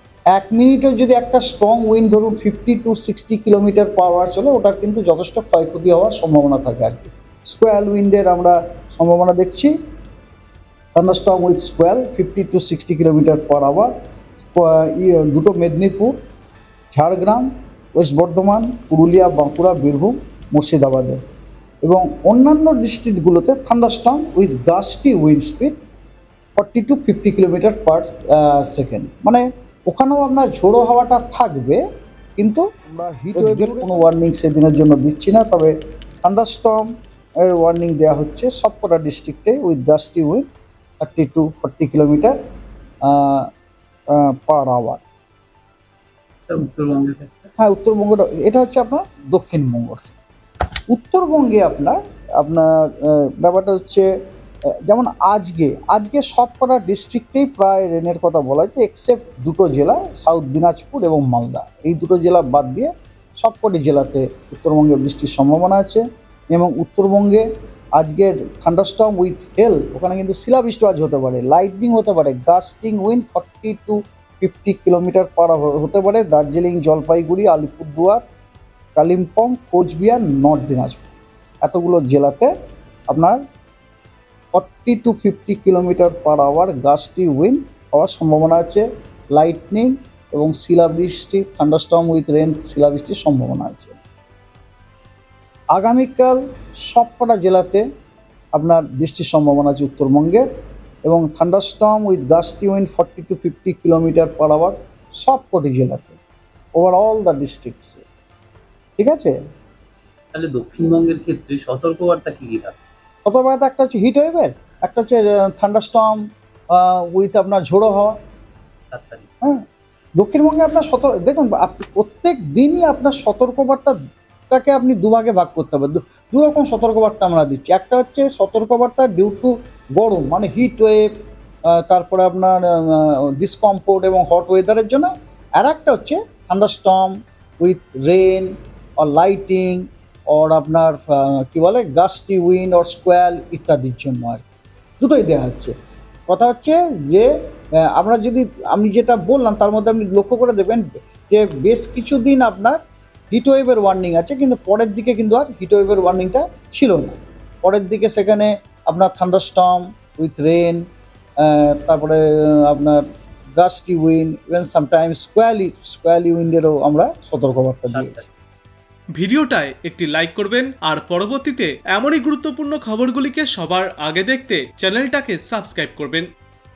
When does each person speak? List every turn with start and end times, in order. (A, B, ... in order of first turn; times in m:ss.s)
0:00.3-0:09.7 A
0:11.0-0:16.2 A
0:16.9-0:21.2 A
0:21.8-0:25.7 A
0:26.6-0:31.8 A
0:32.4-0:36.9 A
0:33.4-0:34.1 B
0:37.5-0:40.5 A
0:41.0-0:42.4 A
0:43.1-0:43.5 A
0:44.2-0:45.0 A
0:46.5-0:47.5 B
0:47.6-0:50.2 A
0:50.9-0:54.1 A
0:54.9-1:07.5 A
1:08.0-1:18.2 A
1:19.0-1:21.1 A
1:21.6-1:22.5 A
1:23.1-1:23.4 A
1:24.5-1:34.0 A
1:35.7-1:37.8 A
1:38.5-1:40.5 A
1:41.1-1:46.2 A
1:46.8-1:48.0 A
1:49.0-1:49.4 A
1:50.3-1:52.8 B
1:53.2-1:56.2 A
1:56.7-1:58.1 A
1:58.9-1:59.3 B
2:00.2-2:04.0 A
2:04.5-2:11.1 A
2:11.8-2:24.4 A
2:25.0-2:25.7 A
2:26.3-2:27.3 A
2:27.9-2:32.8 A
2:33.3-2:40.8 A
2:41.4-2:43.0 A
2:43.6-2:48.2 A
2:47.9-2:48.3 B
2:49.2-2:56.3 C